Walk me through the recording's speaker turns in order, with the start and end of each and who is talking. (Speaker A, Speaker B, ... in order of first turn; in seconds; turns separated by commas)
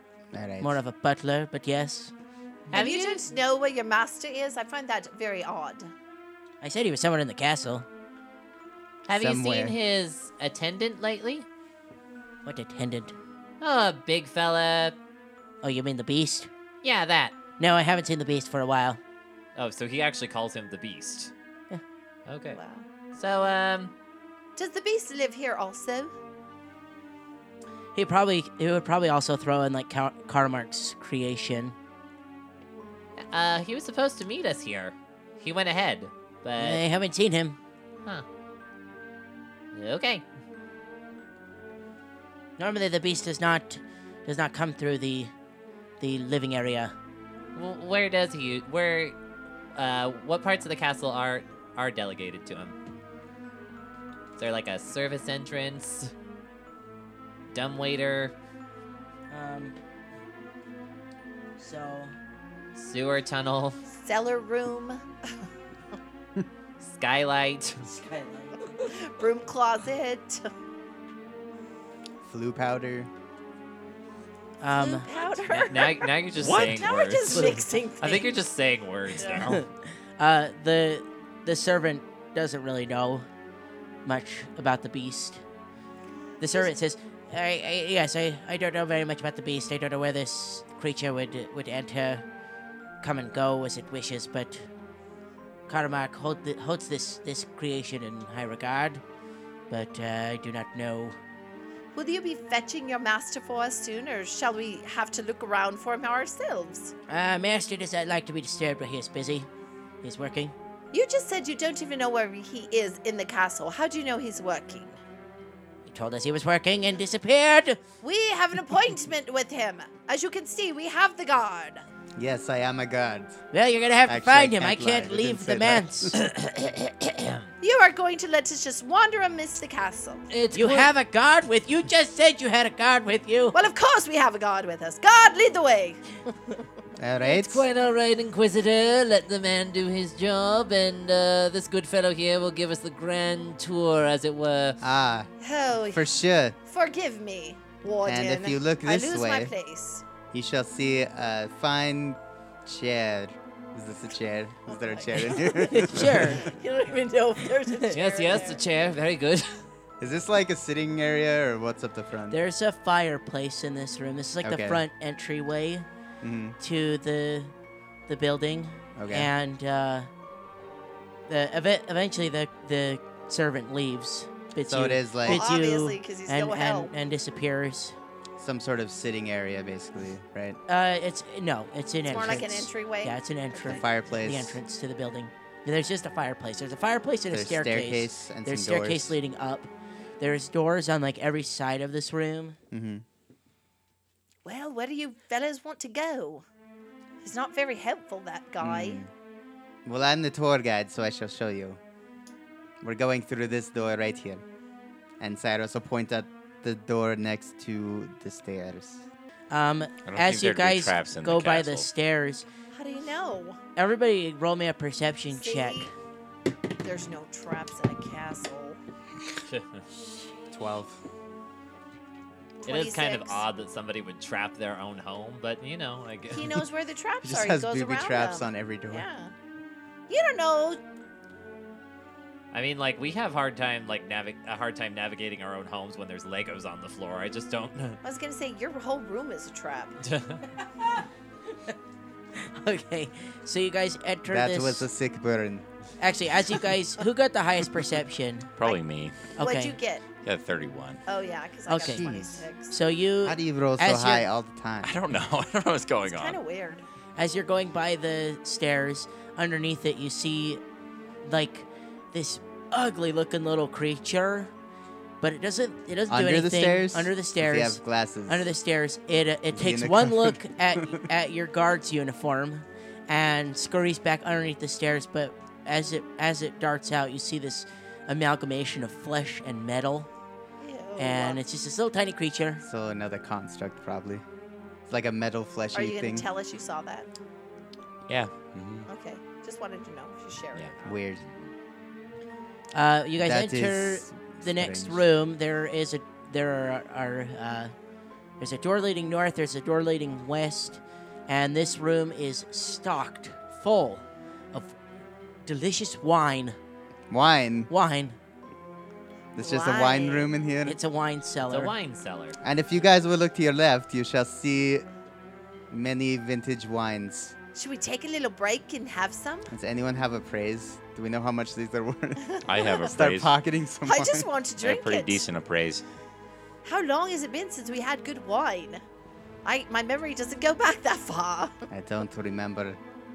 Speaker A: 0.3-0.8, Speaker B: 0.6-2.1, Speaker C: 2.7-3.2, Speaker D: 2.7-5.9, Speaker B: 6.6-7.8, Speaker C: 9.1-11.4, Speaker A: 9.1-9.7, Speaker B: 12.4-13.1, Speaker C: 13.6-15.0, Speaker B: 15.6-16.5, Speaker C: 16.8-17.4, Speaker B: 17.6-19.0, Speaker C: 19.6-21.3, Speaker C: 22.3-22.6, Speaker D: 22.5-22.9, Speaker C: 23.1-23.9, Speaker D: 24.6-26.1, Speaker B: 27.9-31.7, Speaker C: 33.2-36.8, Speaker B: 36.6-37.6, Speaker C: 39.7-40.2, Speaker B: 42.6-45.3, Speaker B: 46.0-46.9, Speaker C: 47.5-49.1, Speaker C: 49.8-52.7, Speaker C: 54.4-56.1, Speaker C: 57.5-58.3, Speaker B: 59.3-59.8, Speaker B: 61.6-62.1, Speaker C: 62.7-63.8, Speaker D: 63.9-65.0, Speaker C: 66.8-67.8, Speaker B: 67.8-68.9, Speaker D: 68.9-70.5, Speaker A: 72.2-73.1, Speaker B: 74.6-75.1, Speaker D: 74.7-78.4, Speaker C: 75.1-79.6, Speaker E: 76.3-76.9, Speaker B: 77.3-77.6, Speaker D: 79.2-79.4, Speaker B: 79.4-83.2, Speaker B: 84.0-85.4, Speaker B: 86.4-92.2, Speaker B: 93.0-94.7, Speaker B: 95.7-99.0, Speaker B: 99.7-101.2, Speaker D: 101.9-106.9, Speaker B: 107.1-109.5, Speaker B: 110.0-110.5, Speaker D: 110.9-115.0, Speaker B: 115.9-117.8, Speaker D: 118.0-121.8, Speaker A: 122.2-123.4, Speaker B: 123.5-126.1, Speaker A: 124.0-126.2, Speaker C: 126.1-127.5, Speaker D: 127.6-130.2, Speaker C: 130.3-130.9, Speaker B: 130.5-133.5, Speaker D: 133.5-136.2, Speaker A: 137.0-137.7, Speaker C: 137.2-144.8, Speaker A: 144.8-145.3, Speaker D: 145.4-146.1, Speaker A: 145.9-146.6, Speaker D: 146.6-150.0, Speaker A: 148.0-149.5, Speaker A: 150.3-156.5, Speaker D: 154.7-158.6, Speaker B: 155.5-158.0, Speaker C: 157.9-159.5, Speaker A: 160.0-162.4, Speaker B: 162.3-165.8, Speaker A: 164.4-164.8, Speaker A: 166.2-166.6, Speaker B: 166.6-167.5, Speaker B: 168.1-170.1, Speaker A: 168.9-169.3, Speaker B: 171.3-177.9, Speaker A: 174.6-175.4, Speaker D: 175.2-176.9, Speaker A: 178.4-180.6, Speaker B: 180.7-192.6, Speaker D: 182.1-183.8, Speaker A: 183.6-184.6, Speaker A: 187.3-189.2, Speaker A: 192.7-193.0, Speaker D: 194.4-196.4, Speaker D: 197.2-199.0, Speaker A: 198.6-199.1, Speaker A: 199.8-201.8, Speaker A: 202.8-204.4, Speaker A: 205.2-209.0, Speaker B: 209.5-212.4, Speaker E: 210.0-211.8, Speaker D: 212.7-213.6, Speaker B: 213.8-215.9, Speaker D: 215.3-215.9, Speaker D: 216.8-218.8, Speaker A: 220.5-221.0, Speaker D: 222.6-223.4, Speaker C: 222.7-226.6, Speaker D: 226.3-229.3, Speaker A: 227.2-229.1, Speaker D: 230.1-230.8, Speaker C: 232.5-238.0, Speaker D: 238.0-240.0, Speaker C: 240.0-240.4, Speaker B: 242.3-244.9, Speaker A: 244.3-245.6, Speaker B: 246.0-248.5, Speaker E: 248.6-249.3, Speaker B: 249.3-249.8, Speaker D: 249.4-250.0, Speaker E: 250.1-251.0, Speaker D: 251.1-252.7, Speaker B: 251.7-252.1, Speaker A: 251.7-252.4, Speaker B: 252.7-254.3, Speaker A: 253.2-254.9, Speaker E: 254.8-256.4, Speaker D: 256.0-256.8, Speaker B: 257.1-260.6, Speaker B: 261.2-264.5, Speaker B: 265.2-280.1, Speaker A: 266.1-268.5, Speaker A: 269.5-271.0, Speaker D: 280.6-281.4, Speaker B: 281.0-282.6, Speaker A: 282.6-284.2, Speaker A: 284.9-286.3, Speaker D: 285.7-287.1, Speaker E: 288.1-288.9, Speaker D: 288.9-291.0, Speaker A: 290.8-291.2, Speaker B: 292.7-297.7, Speaker A: 293.2-295.1, Speaker B: 298.4-304.7, Speaker B: 305.4-306.6, Speaker A: 307.1-307.7, Speaker B: 307.7-308.2, Speaker A: 309.3-310.8, Speaker D: 309.4-310.3, Speaker B: 310.6-311.7, Speaker C: 311.5-312.4, Speaker A: 312.4-314.8, Speaker A: 315.7-317.3, Speaker D: 317.5-319.5, Speaker A: 319.5-324.3, Speaker D: 322.2-322.9, Speaker E: 322.4-323.3, Speaker D: 323.9-325.2, Speaker E: 324.6-325.8, Speaker D: 326.6-328.8, Speaker D: 329.4-331.6, Speaker A: 331.7-332.8